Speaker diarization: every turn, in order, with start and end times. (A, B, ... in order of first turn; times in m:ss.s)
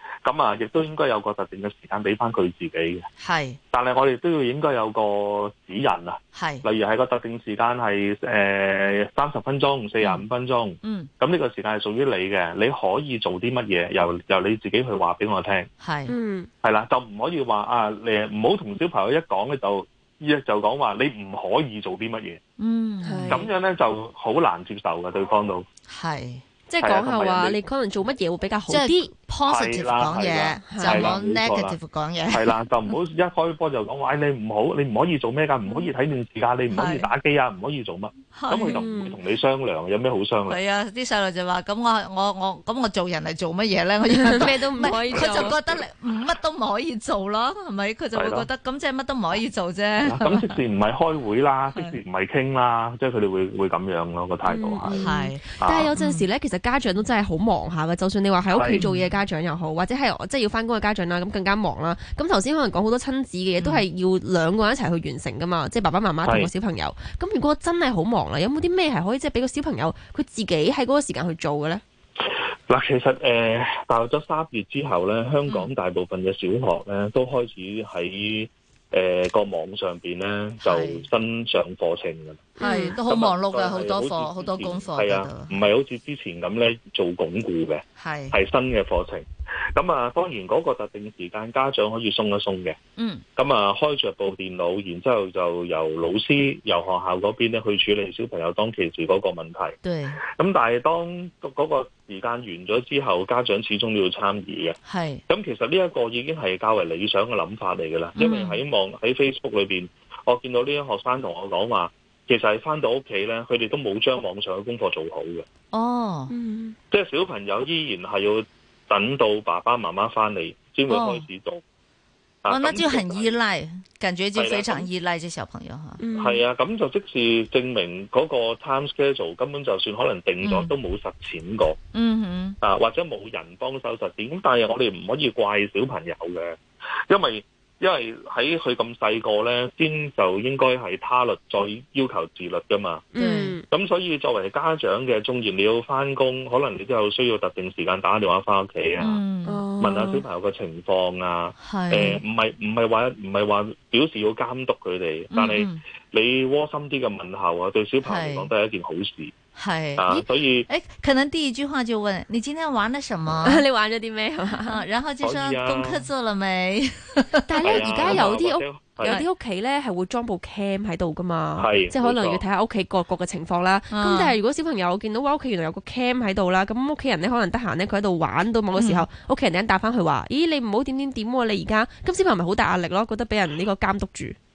0:00.2-0:03.1 A
0:03.2-0:03.6 B
0:03.7-0:15.7 A
0:06.3-0:06.6 B
0:10.0-0:10.2 B
0:10.8-0:11.1 B
0:15.8-0:16.1 B
0:16.1-0:16.5 C
0:16.6-0:22.4 A
0:22.6-0:23.5 B
0:23.0-0:23.5 C
0:23.3-0:25.6 A
0:25.9-0:26.4 B
0:26.7-0:29.1 C
0:26.8-0:27.6 A
0:28.7-0:32.6 B
0:29.4-0:31.8 A
0:30.7-0:31.2 C
0:32.3-0:40.6 A
0:36.7-0:37.1 B
0:38.3-0:38.8 B
0:38.7-0:39.2 C
0:40.5-0:50.6 B
0:44.1-0:45.6 C
0:45.1-0:45.7 A
0:48.1-0:48.5 A
0:50.0-0:55.0 A
0:54.4-1:11.8 C
0:54.9-0:56.3 B
0:55.6-0:55.9 A
0:58.5-0:58.8 A
0:58.6-0:59.1 B
1:03.6-1:03.8 B
1:06.2-1:06.5 A
1:12.7-1:32.8 A
1:20.6-1:21.0 B
1:22.6-1:23.0 C
1:22.6-1:25.6 B
1:28.0-1:28.4 B
1:33.0-1:33.2 B
1:33.4-1:39.7 A
1:39.8-1:40.2 B
1:40.4-1:44.8 A
1:44.8-1:45.2 B
1:45.3-1:55.4 A
1:48.2-1:48.6 B
1:55.7-1:56.3 B
1:56.3-1:56.8 C
1:56.9-2:01.6 A
2:00.9-2:01.2 B
2:02.4-2:03.4 A
2:02.5-2:06.0 B
2:04.3-2:04.9 A
2:06.0-2:06.4 C
2:06.2-2:11.8 A
2:10.4-2:10.7 B
2:11.9-2:12.6 B
2:12.6-2:16.6 A
2:17.1-2:23.1 A
2:23.1-2:23.6 C
2:23.2-2:23.6 B
2:23.7-2:29.2 A
2:29.0-2:29.6 B
2:29.4-2:30.2 C
2:29.8-2:39.3 A
2:31.6-2:32.2 B
2:35.3-2:35.8 B
2:38.0-2:38.5 B
2:39.6-2:43.6 B
2:40.0-2:40.7 A
2:43.4-2:44.8 C
2:44.6-2:48.3 B
2:45.2-2:46.1 A
2:47.4-3:04.4 C
2:47.6-2:49.2 A
2:49.0-2:49.3 B
2:51.6-2:52.4 A
2:53.9-2:54.4 B
2:58.8-2:59.1 B